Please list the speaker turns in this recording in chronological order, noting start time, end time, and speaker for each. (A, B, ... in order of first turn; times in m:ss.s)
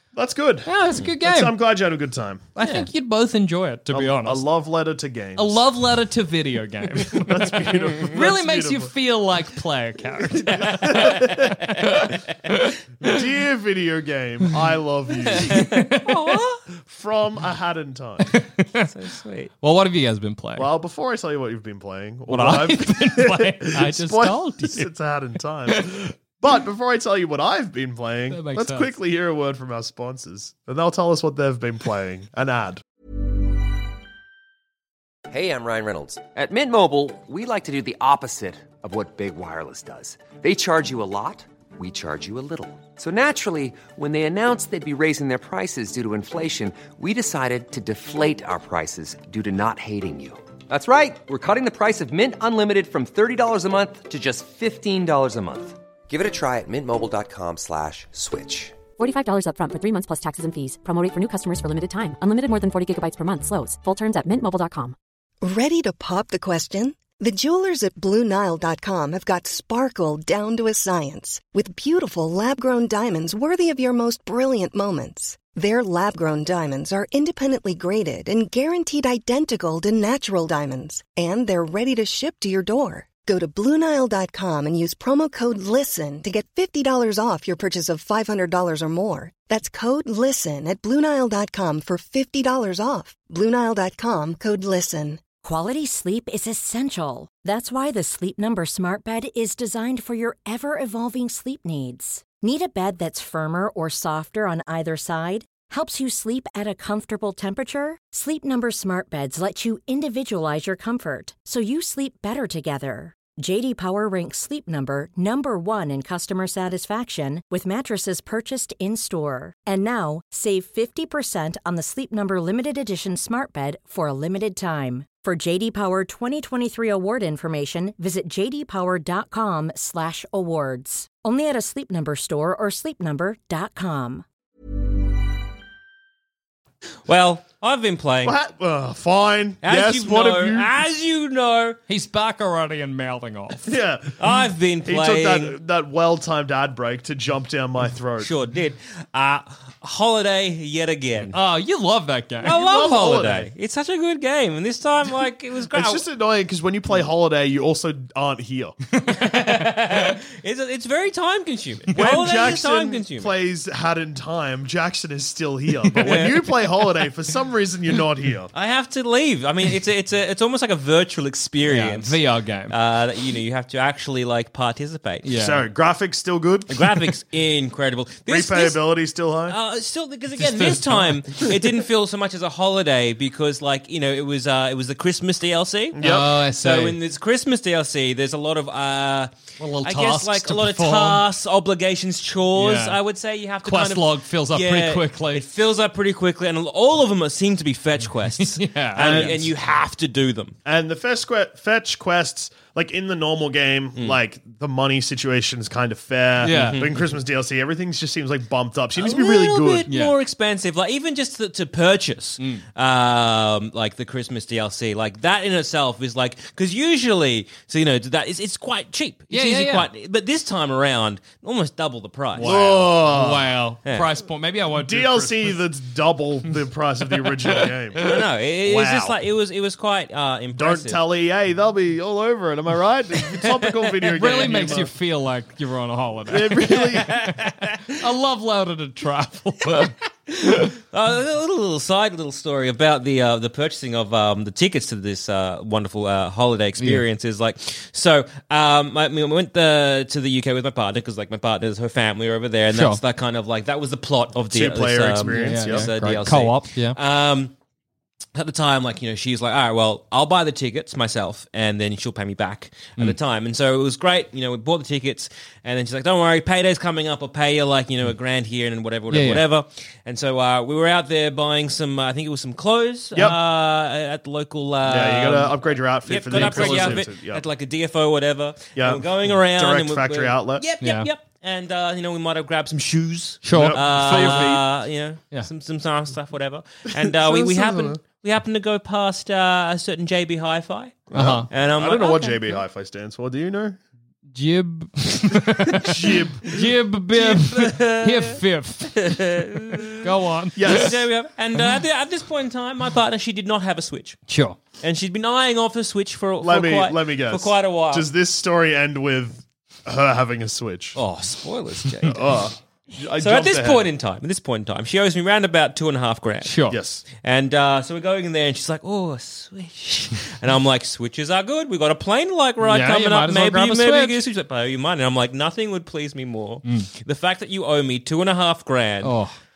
0:00.1-0:02.5 A
0:00.6-0:01.5 B
0:02.6-0:04.4 B
0:03.9-0:05.6 A
0:05.4-0:12.7 B
0:07.0-0:08.9 A
0:10.5-0:11.2 C
0:10.6-0:11.6 A
0:13.0-0:15.7 A
0:15.3-0:16.6 C
0:15.5-0:16.4 B
0:16.8-0:18.3 A
0:18.3-0:18.9 B
0:18.9-0:19.5 C
0:19.6-0:20.7 B
0:20.6-0:32.8 A
0:22.3-0:24.9 B
0:28.3-0:28.9 B
0:35.3-0:58.8 D
0:59.0-1:05.0 E
1:05.4-1:35.2 F
1:35.4-2:14.2 G
2:17.1-2:18.4 C
2:18.2-2:20.7 A
2:19.6-2:21.8 C
2:21.9-2:23.7 B
2:23.6-2:24.3 A
2:24.2-2:25.6 C
2:24.8-2:28.3 A
2:28.2-2:31.4 C
2:31.3-2:32.5 B
2:32.4-2:33.5 A
2:32.4-2:36.0 C
2:35.7-2:38.8 A
2:39.1-2:43.3 C
2:41.9-2:48.5 A
2:46.0-2:46.4 C
2:48.5-2:55.3 C
2:51.6-2:52.7 B
2:55.2-2:55.6 B
2:55.4-2:57.0 A
2:56.7-2:58.8 C
2:58.3-2:59.6 A
2:59.5-3:09.3 C
3:00.5-3:01.5 A
3:05.9-3:06.3 A
3:06.0-3:07.0 B
3:09.6-3:11.2 B
3:09.8-3:20.6 C
3:12.6-3:13.0 B
3:13.6-3:15.4 B
3:18.4-3:19.4 B
3:19.0-3:19.4 A
3:20.6-3:29.9 A
3:26.4-3:26.8 B
3:26.5-3:26.9 C
3:29.0-3:43.0 C
3:29.9-3:30.2 B
3:39.3-3:39.9 B
3:42.4-3:43.5 A
3:42.4-3:45.6 B
3:44.7-3:48.1 A
3:47.6-3:48.2 B
3:48.0-3:51.0 C
3:48.6-3:49.2 A
3:50.5-3:54.9 A
3:54.1-3:59.9 B
3:54.2-3:54.5 C
3:56.3-3:57.3 A
3:56.8-3:57.9 C
3:59.7-4:17.5 C
4:12.7-4:13.0 B
4:14.5-4:16.2 A
4:15.2-4:17.0 B
4:18.3-4:52.6 C
4:29.1-4:29.4 B
4:34.8-4:37.4 A
4:36.3-4:37.0 B
4:38.8-4:40.6 A
4:40.8-4:41.1 B
4:43.4-4:44.5 B
4:43.5-4:44.6 A
4:46.9-4:48.0 A
4:51.1-4:51.5 B
4:51.1-4:53.8 A
4:54.3-4:59.2 B
4:55.8-4:56.7 A
4:57.1-4:58.4 C
4:58.9-5:00.1 C
5:00.0-5:00.9 B
5:00.6-5:01.0 A
5:00.6-5:04.2 C
5:04.3-5:04.6 B
5:04.8-5:08.1 C
5:06.4-5:11.0 A
5:10.9-5:12.3 C
5:12.0-5:13.9 A
5:13.2-5:16.6 C
5:16.4-5:16.8 B
5:16.7-5:17.0 A
5:17.2-5:29.2 C
5:22.6-5:24.2 B
5:29.0-5:29.3 B